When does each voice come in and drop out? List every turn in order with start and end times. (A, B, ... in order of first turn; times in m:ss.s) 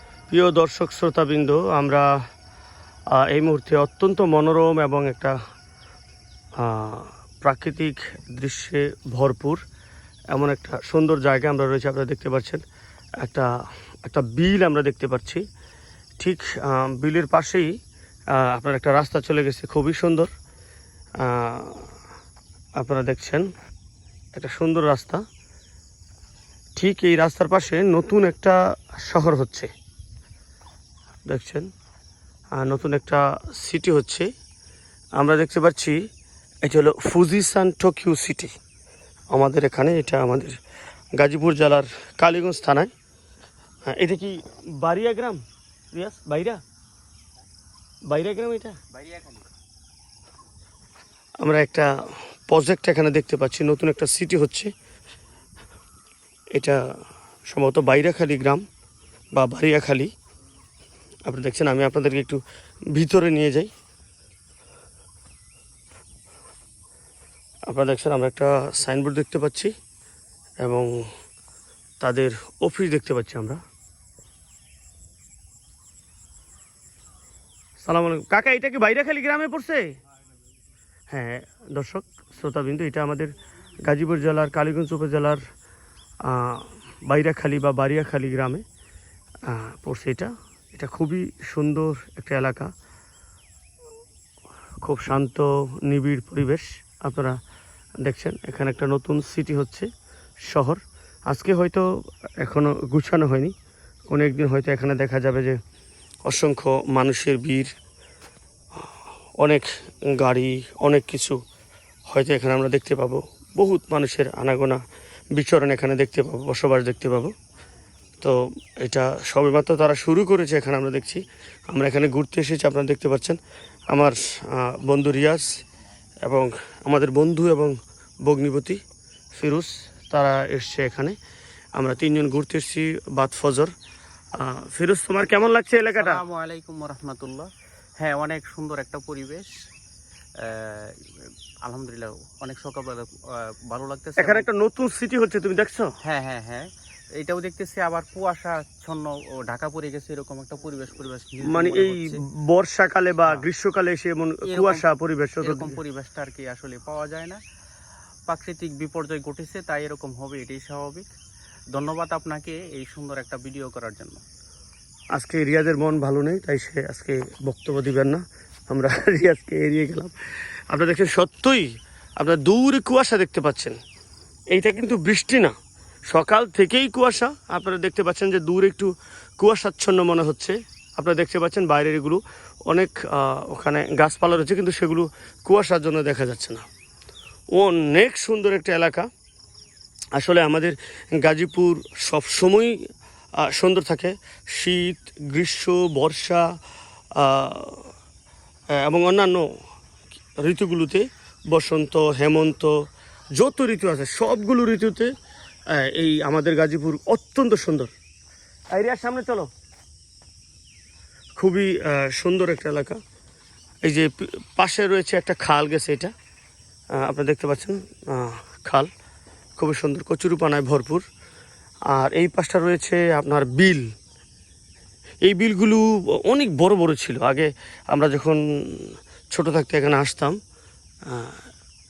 0:00.3-0:02.1 A
0:03.2-0:05.4 A
0:06.6-0:09.6 A
0:10.3-0:12.6 A
0:13.2-0:13.5 A
0:14.0-0:15.4 A
0:16.2-0:17.7 A
0:18.3-0:20.3 A
0:21.2-0:21.9 A
0:22.8-0:23.5 A
0:24.3-0:25.2 A
0:26.8-0:29.7 A
0:31.3-0:31.7 A
0:32.6-0:34.3 A
0:35.2-0:36.0 A
0:36.6-0:38.5 A
0:39.3-0:40.6 A
0:41.2-0:42.9 A
0:43.9-0:45.4 A
0:45.9-0:46.6 A
0:48.1-0:48.8 A
0:48.9-0:49.4 B
0:51.4-0:54.7 A
0:56.5-0:56.8 A
0:57.5-0:58.6 A
0:59.3-1:00.1 A
1:01.3-1:02.4 A
1:02.9-1:03.7 A
1:07.7-1:09.7 A
1:10.6-1:11.1 A
1:12.0-1:13.6 A
1:17.8-1:19.9 A
1:21.1-1:25.4 A
1:26.2-1:28.6 A
1:29.5-1:32.7 A
1:34.8-1:37.4 A
1:38.0-1:39.9 A
1:40.4-1:41.9 A
1:42.4-1:43.5 A
1:44.1-1:45.6 A
1:46.2-1:47.7 A
1:49.4-1:51.4 A
1:52.1-1:54.8 A
1:55.3-1:57.3 A
1:58.2-2:03.4 A
2:03.9-2:05.6 A
2:06.2-2:08.8 A
2:09.4-2:11.2 A
2:11.8-2:13.7 A
2:14.4-2:16.2 A
2:15.9-2:19.7 B
2:20.4-2:24.5 B
2:24.2-2:25.9 A
2:26.0-2:32.2 B
2:31.4-2:35.8 A
2:34.5-2:34.8 B
2:35.4-2:37.4 B
2:38.3-2:41.1 B
2:41.7-2:44.2 B
2:45.1-2:50.1 A
2:50.7-2:53.8 A
2:54.5-2:55.6 A
2:56.1-3:06.6 A
3:07.5-3:09.1 A
3:10.2-3:12.8 A
3:13.4-3:16.5 A
3:17.2-3:17.9 A
3:18.8-3:19.5 A
3:20.4-3:22.8 A
3:23.4-3:25.1 A
3:25.7-3:27.9 A
3:28.7-3:29.5 A
3:31.4-3:33.0 A
3:33.8-3:36.1 A
3:37.0-3:38.9 A
3:39.6-3:41.0 A
3:41.9-3:43.9 A
3:45.2-3:50.4 A
3:51.1-3:51.4 A